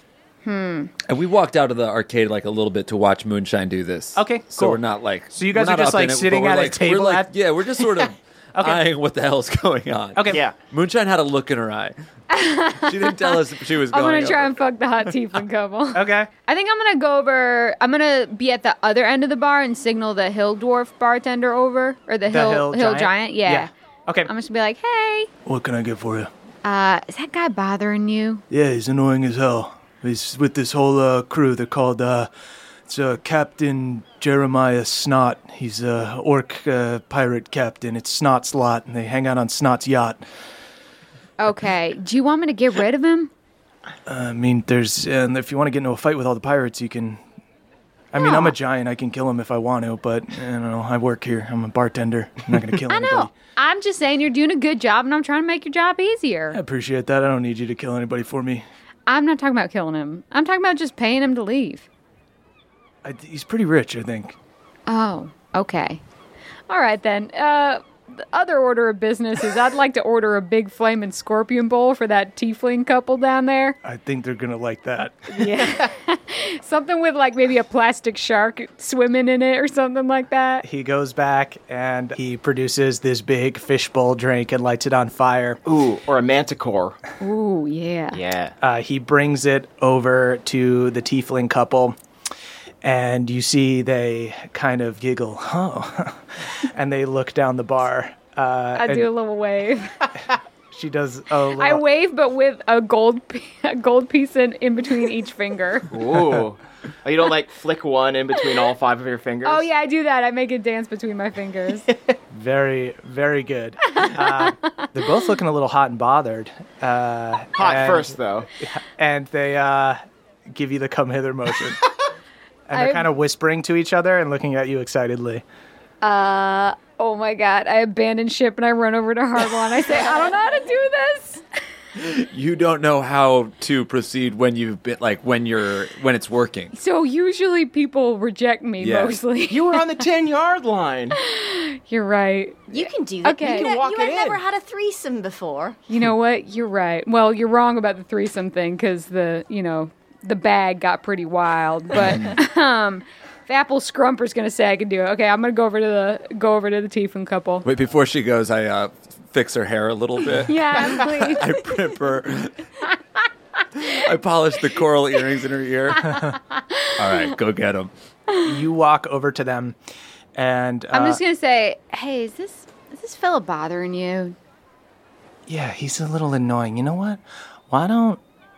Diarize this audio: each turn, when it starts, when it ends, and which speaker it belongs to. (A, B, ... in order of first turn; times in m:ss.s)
0:00.4-0:00.9 A
0:01.1-0:11.9 B
0:04.2-0:04.8 C
0:05.3-0:07.3 C
0:08.6-0:08.8 C
0:10.3-0:10.6 D
0:12.3-0:23.7 A
0:12.8-0:14.6 B
0:15.9-0:16.3 C
0:22.3-0:24.3 C
0:24.2-0:25.3 A
0:25.4-0:26.3 C
0:26.6-0:28.4 A
0:28.5-0:32.3 C
0:32.9-0:40.2 C
0:41.4-0:43.3 A
0:44.1-0:47.2 C
0:48.1-0:53.3 C
0:48.2-0:48.5 A
0:52.9-0:56.6 A
0:56.5-0:58.6 C
0:59.1-1:01.9 A
1:03.0-1:04.4 C
1:04.9-1:06.0 A
1:06.7-1:13.8 A
1:13.8-1:15.7 C
1:15.3-1:20.6 A
1:20.6-1:25.6 C
1:25.6-1:27.0 D
1:27.2-1:28.2 A
1:28.1-1:28.5 D
1:28.6-1:32.0 C
1:32.8-1:36.2 C
1:36.7-1:39.1 C
1:38.8-1:40.1 A
1:40.7-1:41.8 C
1:41.6-1:45.9 A
1:45.9-1:49.7 D
1:49.4-1:51.9 A
1:52.3-2:00.0 C
1:54.0-1:54.8 A
1:57.6-1:58.5 D
2:00.5-2:01.9 C
2:02.7-2:05.4 C
2:02.7-2:03.1 A
2:06.0-2:11.4 A
2:12.0-2:16.7 B
2:16.7-2:19.8 A
2:18.8-2:19.2 B
2:19.5-2:21.2 D
2:21.2-2:23.7 A
2:22.7-2:25.8 E
2:23.4-2:24.4 D
2:25.9-2:37.6 A
2:32.0-2:32.3 B
2:37.6-2:42.5 B
2:40.4-2:41.5 A
2:43.7-2:46.2 B
2:46.1-2:46.4 C
2:46.1-2:47.2 A
2:47.0-2:47.9 B
2:48.4-2:49.8 C
2:50.4-2:51.2 C
2:50.9-2:54.4 A
2:55.5-2:58.2 C